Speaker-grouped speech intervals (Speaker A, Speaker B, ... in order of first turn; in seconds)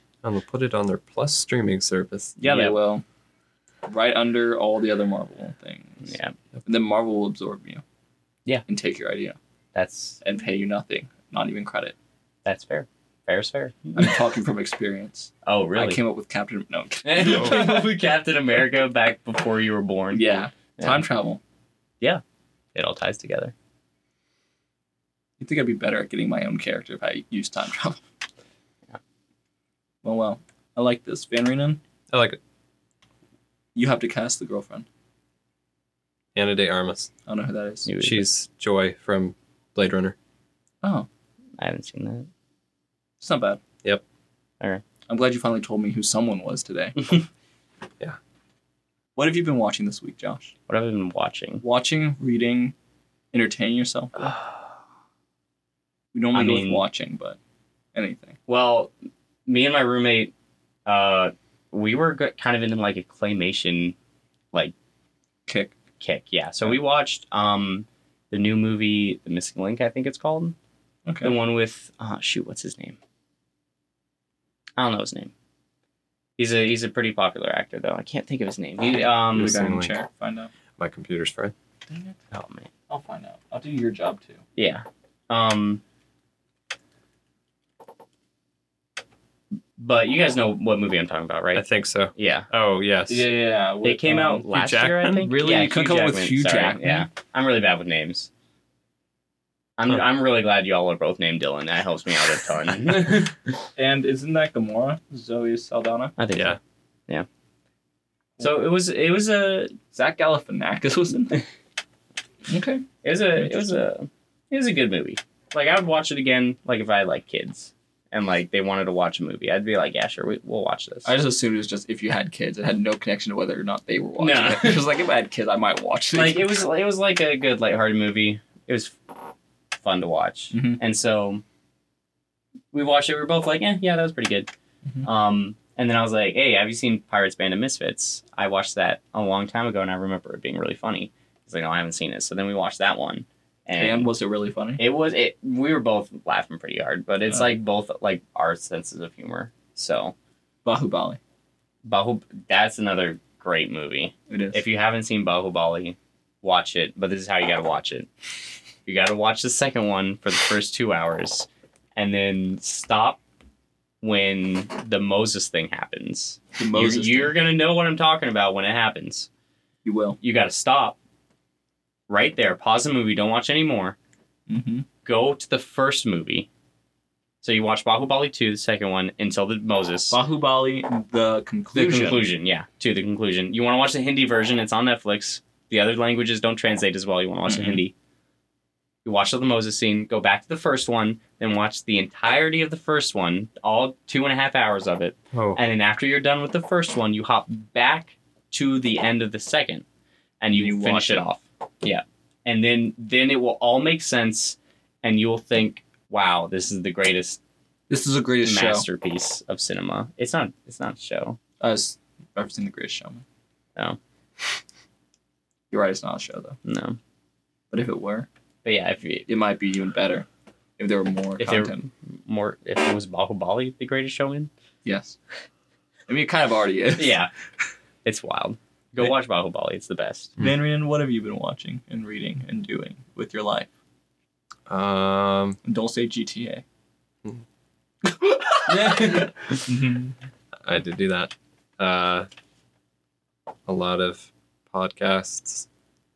Speaker A: 0.2-2.4, 32.1-32.4, 36.3-37.1, 38.0-40.1, 79.3-79.9, 80.8-81.5, 91.5-93.3, 94.5-95.3, 195.3-195.6, 234.7-235.6, 240.6-242.3, 243.7-245.7
Speaker B: 2.4-3.0, 3.9-6.1, 6.6-7.8, 8.7-9.4, 10.2-11.9, 13.9-17.9, 20.1-21.4, 25.4-28.0, 30.0-31.8, 33.7-34.9, 37.3-37.9, 40.8-41.1, 43.2-43.6, 45.1-47.2, 49.1-50.5, 51.6-52.7, 53.3-54.3, 56.1-57.4, 57.9-58.4, 65.5-65.7, 71.0-71.3, 78.8-80.5, 81.9-82.2, 82.9-84.4, 93.1-94.5, 95.2-97.1, 103.8-106.1, 109.9-111.4, 112.5-112.8, 121.0-126.5, 130.5-130.8, 143.8-144.8, 147.3-147.6, 150.6-151.2, 154.3-154.6, 166.6-167.3, 169.8-170.2, 174.5-174.8, 180.1-182.2, 187.4-187.8, 200.5-201.2, 207.9-208.8, 211.6-213.2, 215.7-216.6, 217.7-218.3, 219.3-220.3, 220.8-221.8, 224.8-225.2, 226.1-227.2, 230.4-233.7, 235.6-236.6, 238.0-240.1
Speaker C: 2.4-2.8, 6.0-6.3, 9.7-10.2, 12.4-14.2, 15.4-16.0, 17.0-21.0, 22.7-23.5, 37.8-38.3, 41.6-42.3, 50.7-51.6, 56.3-56.8, 58.5-58.9, 59.5-60.3, 60.9-64.0, 66.0-70.5, 71.2-73.0, 74.8-75.3, 76.4-79.6, 82.3-82.7, 84.5-85.8, 89.8-92.5, 93.8-98.3, 99.8-103.6, 106.2-107.2, 108.4-109.8, 113.0-121.1, 124.2-124.8, 126.1-129.2, 129.8-131.4, 132.7-134.5, 135.0-144.1, 144.8-150.1, 151.8-158.1, 158.8-163.2, 164.0-169.3, 170.2-171.0, 172.1-173.9, 175.0-176.5, 177.4-180.2, 181.7-187.9, 189.0-199.8, 200.4-207.4, 208.4-211.4, 216.6-217.0, 218.6-219.3, 221.4-224.5, 227.0-227.3, 228.0-230.3, 238.7-239.8